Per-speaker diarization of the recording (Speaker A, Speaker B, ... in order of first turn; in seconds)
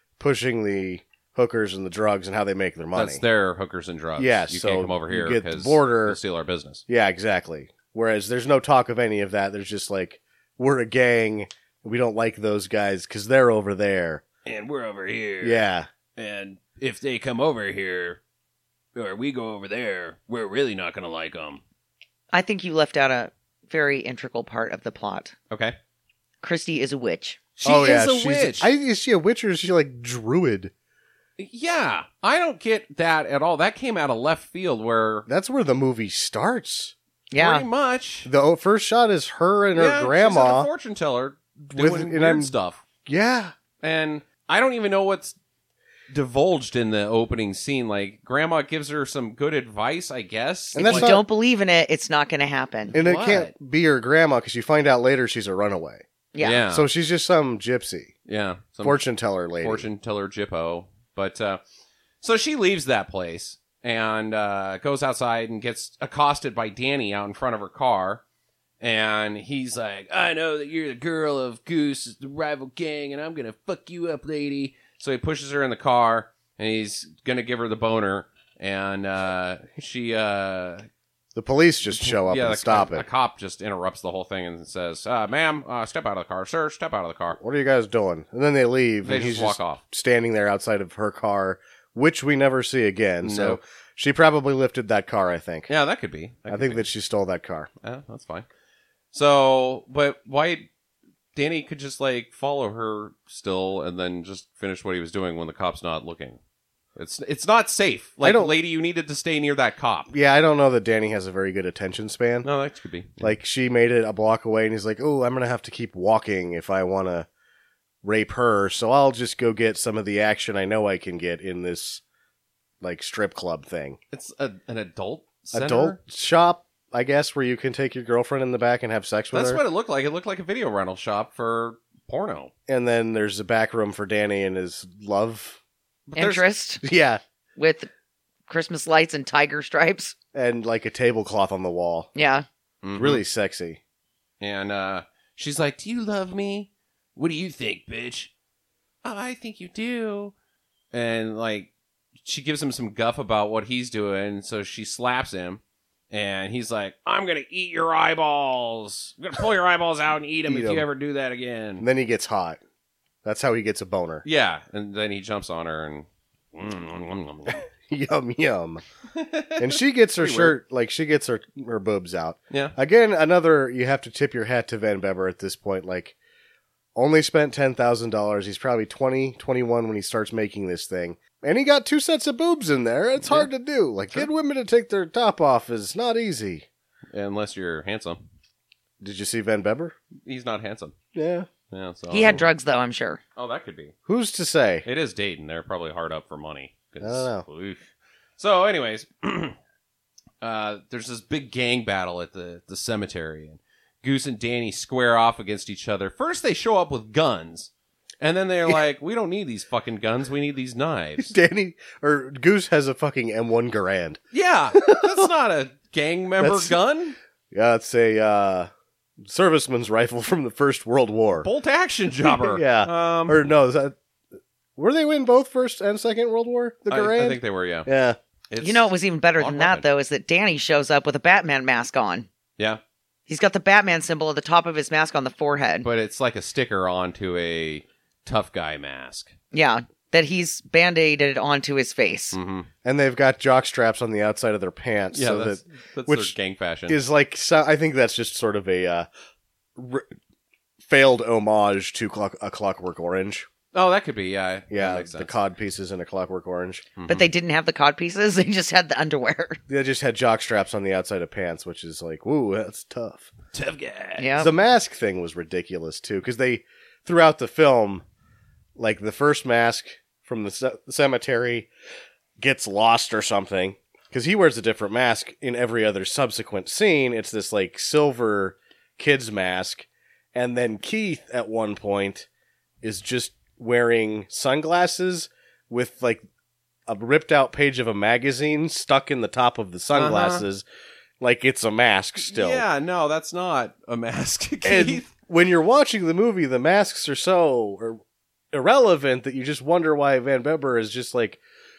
Speaker A: 0.2-3.2, 4.2-6.2, 6.9-14.2, 15.4-15.9, 27.6-30.7, 35.3-37.0, 38.2-40.7, 41.7-42.5, 43.0-43.5, 50.7-51.2, 52.9-56.1, 56.7-58.1, 58.8-59.9, 81.3-83.1, 87.4-95.7, 96.5-97.7, 108.2-108.5, 110.1-112.5, 113.2-117.3, 118.0-122.0, 122.8-124.0, 125.5-129.6, 132.7-135.6, 136.8-137.2, 140.3-142.1, 142.9-143.8, 160.5-160.9, 161.8-162.6, 163.2-164.2, 167.9-168.8, 169.6-176.2, 176.9-186.7, 189.0-190.0, 191.1-191.5, 194.1-194.9, 197.0-197.4, 211.3-214.2, 214.8-215.3, 216.4-216.8, 217.5-221.5, 222.3-224.0, 224.8-228.2, 242.8-246.3, 246.9-249.1, 249.8-250.1, 250.8-253.5, 254.7-256.9, 259.7-263.3, 264.4-268.0, 268.8-271.7, 272.4-282.3, 282.8-286.2, 286.9-290.6, 291.2-292.6, 294.6-298.0, 298.5-301.4
Speaker B: 2.9-6.8, 14.5-15.7, 16.2-18.2, 18.9-21.6, 25.5-25.8, 27.6-28.7, 31.4-35.3, 37.4-38.3, 39.8-42.8, 43.8-45.4, 46.1-51.1, 52.9-53.5, 56.4-56.9, 58.3-59.0, 59.6-61.6, 62.2-68.2, 68.8-80.9, 81.9-87.4, 89.0-89.8, 93.2-93.6, 95.7-96.8, 97.8-98.5, 99.1-100.7, 101.3-106.4, 107.0-110.1, 112.4-113.3, 124.1-126.0, 129.3-132.5, 136.1-136.4, 142.8-143.2, 144.4-148.3, 149.0-150.3, 150.9-151.7, 152.2-161.9, 164.2-167.7, 169.2-170.5, 172.5-172.8, 183.2-183.5, 187.1-188.2, 190.2-190.9, 191.7-192.5, 193.4-193.9, 194.8-199.6, 200.4-207.7, 208.2-211.3, 214.3-217.2, 221.4-223.4, 226.9-227.9, 228.5-229.8, 235.8-239.3, 242.3-242.7, 245.1-247.0, 253.7-255.3, 257.0-257.3, 263.5-264.3, 289.9-290.5, 292.2-295.1
Speaker C: 22.3-25.4, 26.4-27.4, 37.3-37.7, 50.8-53.0, 56.3-56.6, 136.2-136.8, 137.6-137.9, 138.5-140.2, 142.2-142.5, 192.1-193.2, 228.6-232.3, 233.3-235.9, 239.5-242.3, 257.1-259.6, 264.2-264.5